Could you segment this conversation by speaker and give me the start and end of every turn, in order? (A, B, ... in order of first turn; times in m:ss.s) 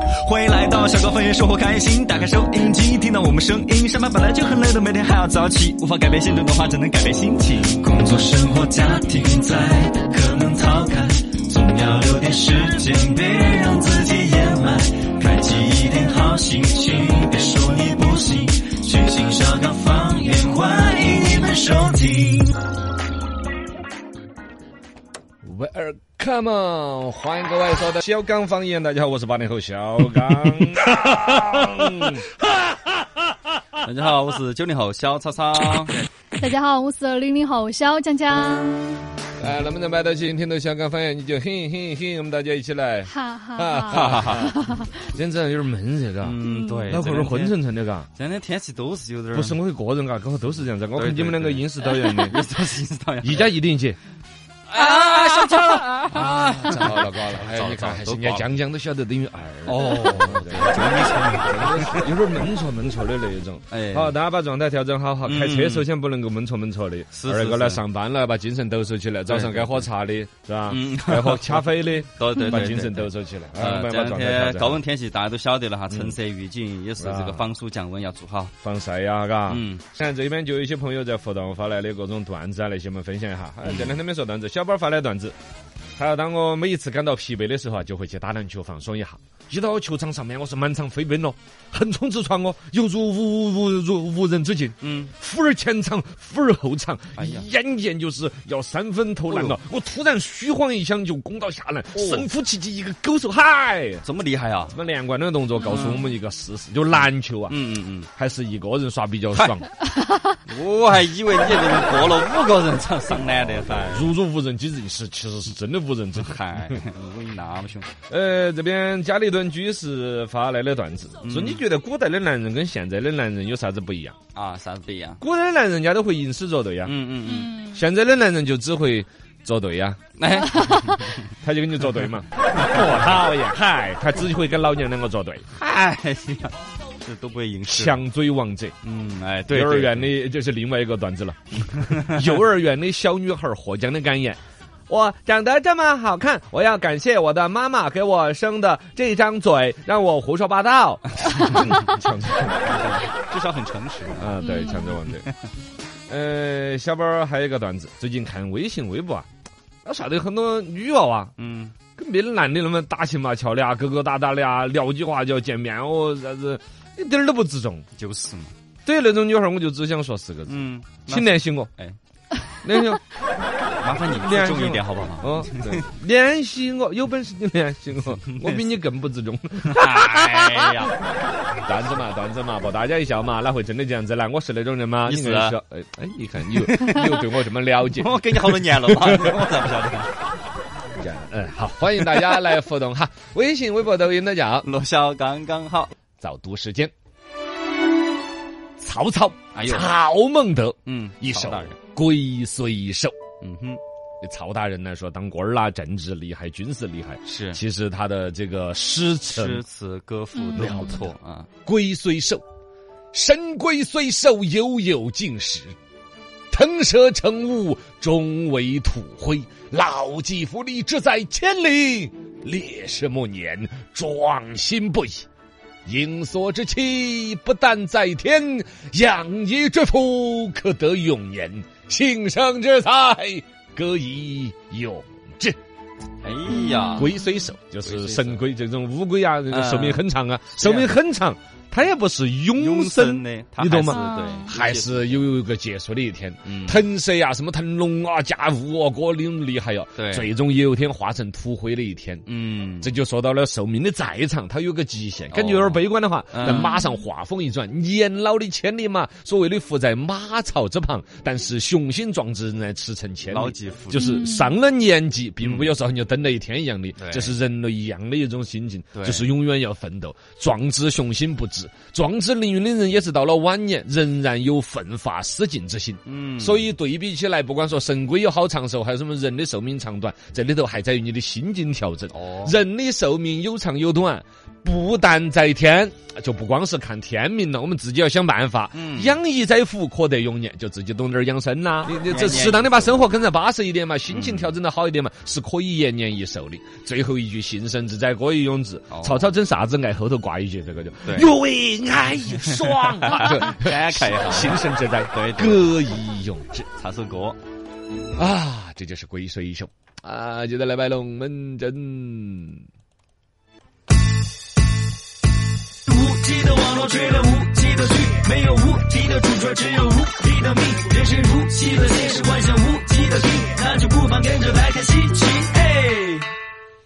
0:00.2-0:22.6 A
0:25.4-0:32.9 B
0:33.8-0:36.0 A
0:36.4-0:39.1 C
0:39.4-0:48.1 B
0:43.1-0:44.9 C
0:43.9-0:44.5 A
0:46.2-0:47.6 A
0:46.4-0:47.0 C
0:48.1-0:49.6 A
0:49.3-0:52.4 B
0:50.9-0:53.6 A
0:53.2-0:54.0 B
0:54.7-0:58.5 A
0:56.0-1:14.8 B
0:59.7-1:02.2 A
1:03.7-1:04.2 A
1:05.2-1:05.9 A
1:07.1-1:07.8 A
1:09.3-1:09.9 A
1:10.7-1:18.5 A
1:15.9-1:16.2 B
1:17.0-1:17.4 B
1:18.6-1:25.4 B
1:19.5-1:19.8 A
1:23.6-1:24.0 A
1:26.0-1:44.0 B
1:34.8-1:35.1 A
1:37.2-1:37.5 A
1:39.3-1:39.6 A
1:41.9-1:42.3 A
1:44.0-1:44.8 A
1:44.7-1:47.6 B
1:45.6-1:46.1 A
1:46.9-1:48.1 A
1:48.2-1:49.7 B
1:49.3-1:49.6 A
1:50.4-1:54.1 A
1:53.2-1:56.8 B
1:56.1-1:57.9 A
1:58.1-2:04.2 B
2:01.2-2:01.6 A
2:04.3-2:05.2 A
2:05.2-2:06.9 B
2:06.8-2:07.6 A
2:07.2-2:07.8 C
2:07.6-2:10.0 B
2:10.2-2:11.3 A
2:11.4-2:15.5 B
2:12.6-2:12.9 A
2:15.5-2:18.0 A
2:17.7-2:18.8 B
2:18.8-2:20.2 A
2:19.5-2:32.6 B
2:31.2-2:31.8 A
2:32.6-2:34.4 A
2:34.2-2:35.3 B
2:34.4-2:35.0 C
2:35.1-2:35.4 A
2:36.1-2:39.3 B
2:39.8-2:41.3 B
2:41.4-2:41.8 A
2:42.0-2:47.9 B
2:48.0-2:48.5 A
2:48.9-2:51.7 B
2:50.4-2:52.0 A
2:52.6-2:53.0 B
2:53.8-2:55.9 A
2:54.1-3:00.9 B
2:58.0-2:58.8 A
2:59.6-3:01.0 A
3:01.6-3:09.4 B
3:05.0-3:05.6 A
3:06.6-3:07.3 A
3:07.8-3:10.2 A
3:11.0-3:14.7 B
3:12.0-3:12.5 A
3:14.6-3:15.9 A
3:16.2-3:16.9 B
3:18.8-3:23.1 B
3:19.5-3:19.9 A
3:20.9-3:21.8 A
3:23.4-3:23.8 A
3:24.2-3:29.6 B
3:27.2-3:27.6 A
3:29.3-3:31.5 A
3:30.6-3:31.1 B
3:31.6-3:32.4 B
3:33.1-3:35.8 B
3:36.5-3:45.3 B
3:45.9-3:55.6 B
3:56.2-3:57.1 A
3:56.5-3:57.1 C
3:56.7-4:12.3 B
3:57.8-3:58.5 A
3:59.5-4:00.9 A
4:02.5-4:05.3 A
4:03.9-4:04.5 C
4:06.4-4:06.8 A
4:10.0-4:10.3 A
4:12.3-4:13.0 A
4:12.8-5:06.7 B
4:15.3-4:16.8 A
4:23.3-4:24.3 A
4:23.9-4:24.6 C
4:25.4-4:25.7 A
4:27.0-4:27.4 A
4:28.9-4:29.3 A
4:36.0-4:36.7 A
4:42.1-4:42.6 A
4:48.7-4:49.2 A
4:52.0-4:53.1 A
4:54.1-4:54.6 A
4:58.9-4:59.3 A
5:01.0-5:01.3 A
5:02.4-5:05.7 A
5:06.7-5:07.4 A
5:08.2-5:12.6 B
5:15.9-5:26.3 A